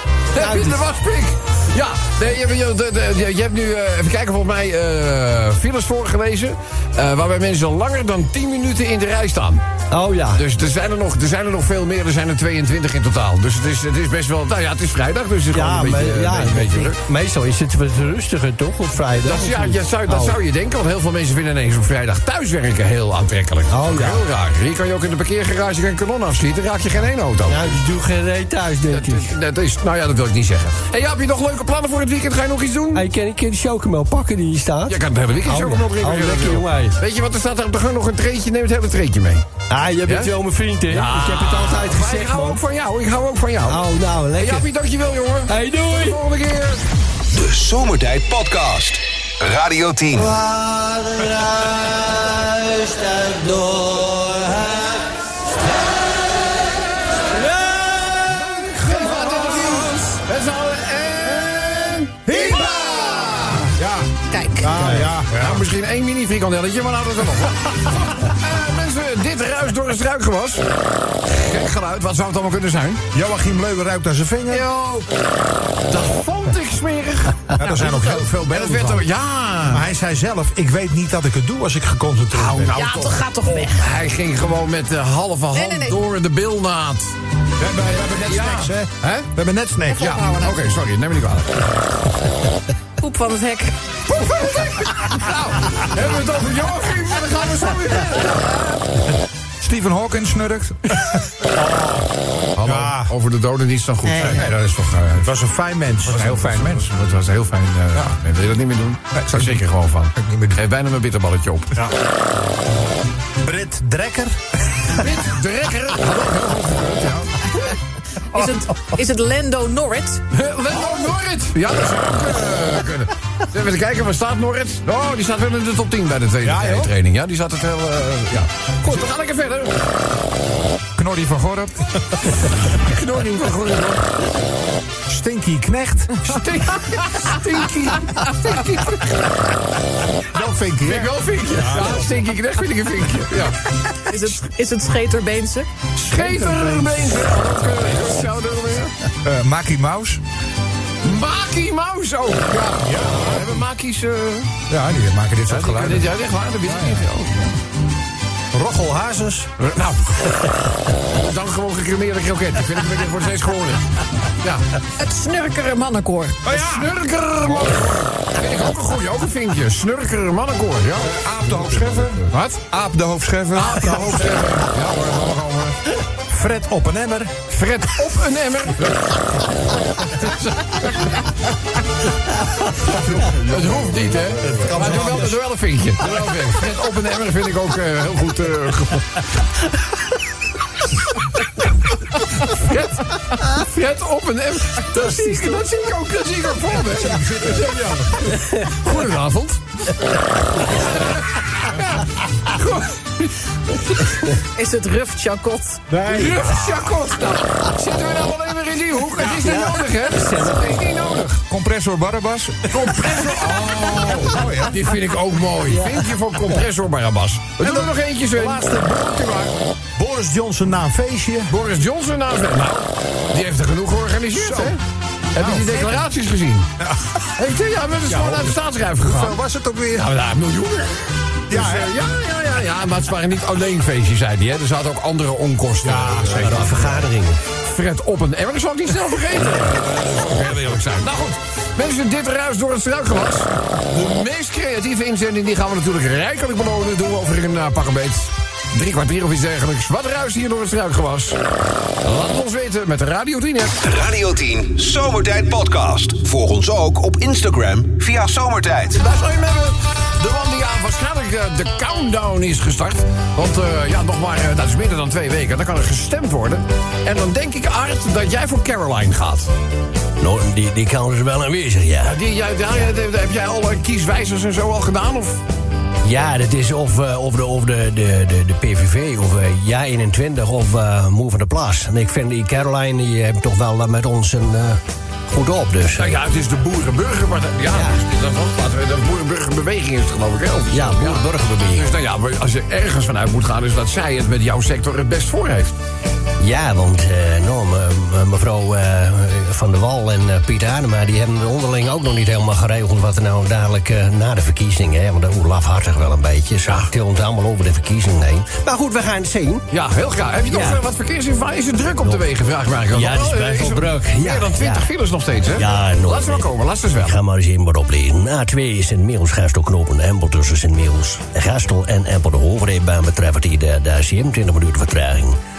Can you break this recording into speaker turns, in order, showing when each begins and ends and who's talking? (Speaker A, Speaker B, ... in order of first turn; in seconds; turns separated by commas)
Speaker A: 0.3-9.6, Speaker B: 0.3-0.8, Speaker B: 9.9-10.4, Speaker A: 10.3-17.0, Speaker B: 15.5-20.4, Speaker A: 19.2-27.8, Speaker B: 23.7-24.2, Speaker B: 27.4-29.4, Speaker A: 28.9-33.0, Speaker B: 32.9-37.0, Speaker A: 34.9-39.4, Speaker B: 39.7-42.6, Speaker A: 40.0-40.3, Speaker A: 40.9-43.8, Speaker B: 43.6-44.7, Speaker A: 44.4-46.8, Speaker B: 45.5-46.2, Speaker C: 47.3-50.3, Speaker B: 50.4-55.0, Speaker B: 57.3-58.5, Speaker A: 58.3-63.7, Speaker D: 58.8-60.1, Speaker D: 62.3-62.9, Speaker D: 63.7-65.6, Speaker E: 64.3-64.9, Speaker A: 64.8-70.7, Speaker A: 71.2-73.0, Speaker D: 73.1-74.7, Speaker A: 74.5-75.0, Speaker A: 75.9-79.8, Speaker D: 77.5-79.0, Speaker D: 79.7-82.7, Speaker A: 82.3-87.1, Speaker E: 82.7-83.9, Speaker E: 85.5-86.0, Speaker D: 87.6-90.2, Speaker A: 87.8-89.3, Speaker E: 89.9-90.6, Speaker A: 90.0-91.7, Speaker E: 93.0-93.8, Speaker A: 94.1-98.6, Speaker F: 99.6-101.0, Speaker D: 101.4-102.1, Speaker A: 102.5-105.2, Speaker D: 102.6-103.1, Speaker D: 104.1-106.5, Speaker A: 106.1-111.7, Speaker F: 106.1-106.8, Speaker F: 109.2-109.5, Speaker F: 110.2-110.5, Speaker D: 113.4-115.1, Speaker A: 115.0-117.5, Speaker E: 118.3-120.2, Speaker A: 120.3-129.8, Speaker D: 126.4-126.9, Speaker F: 130.9-131.8, Speaker A: 132.8-134.1, Speaker D: 135.1-136.4, Speaker A: 136.2-139.5, Speaker D: 140.3-142.1, Speaker A: 140.8-143.6, Speaker E: 143.9-145.7, Speaker A: 145.9-148.9, Speaker F: 149.2-150.2, Speaker A: 151.0-154.5, Speaker D: 152.8-153.6, Speaker F: 154.7-156.1, Speaker A: 155.5-157.5, Speaker D: 158.5-159.5, Speaker A: 159.6-160.4, Speaker A: 161.0-164.7, Speaker E: 165.0-166.4, Speaker D: 166.4-168.0, Speaker A: 166.5-171.1, Speaker F: 171.1-174.3, Speaker D: 171.7-171.9, Speaker A: 172.3-172.6, Speaker A: 173.5-175.8, Speaker D: 173.9-174.6, Speaker D: 176.3-177.3, Speaker A: 177.5-179.4, Speaker A: 180.0-181.1, Speaker D: 182.9-183.6, Speaker A: 182.9-189.2, Speaker D: 184.2-185.4, Speaker A: 192.3-199.6, Speaker D: 197.4-197.9, Speaker A: 200.6-203.3, Speaker E: 204.5-205.8, Speaker D: 205.9-206.6, Speaker A: 206.1-211.4, Speaker B: 209.3-210.9, Speaker F: 211.5-212.9, Speaker A: 212.7-219.5, Speaker D: 213.8-214.9, Speaker B: 215.7-216.1, Speaker D: 217.6-219.4, Speaker D: 219.9-221.5, Speaker A: 221.5-224.8, Speaker D: 224.3-224.8, Speaker A: 225.3-226.7, Speaker D: 225.4-225.9, Speaker D: 226.8-227.3, Speaker A: 227.3-229.4, Speaker D: 228.1-230.1, Speaker A: 229.9-237.0, Speaker D: 231.5-231.9, Speaker D: 235.8-237.0, Speaker B: 236.3-237.4, Speaker A: 237.6-251.4, Speaker A: 252.0-253.8, Speaker C: 253.8-259.0, Speaker A: 258.9-269.5, Speaker B: 270.2-272.2, Speaker A: 272.0-275.4, Speaker B: 276.0-286.2, Speaker A: 285.9-295.7, Speaker B: 287.7-288.0, Speaker B: 290.7-291.9, Speaker B: 296.4-309.6, Speaker A: 309.7-317.2, Speaker B: 310.5-310.8, Speaker B: 312.0-312.2, Speaker B: 312.9-314.9, Speaker B: 315.5-325.4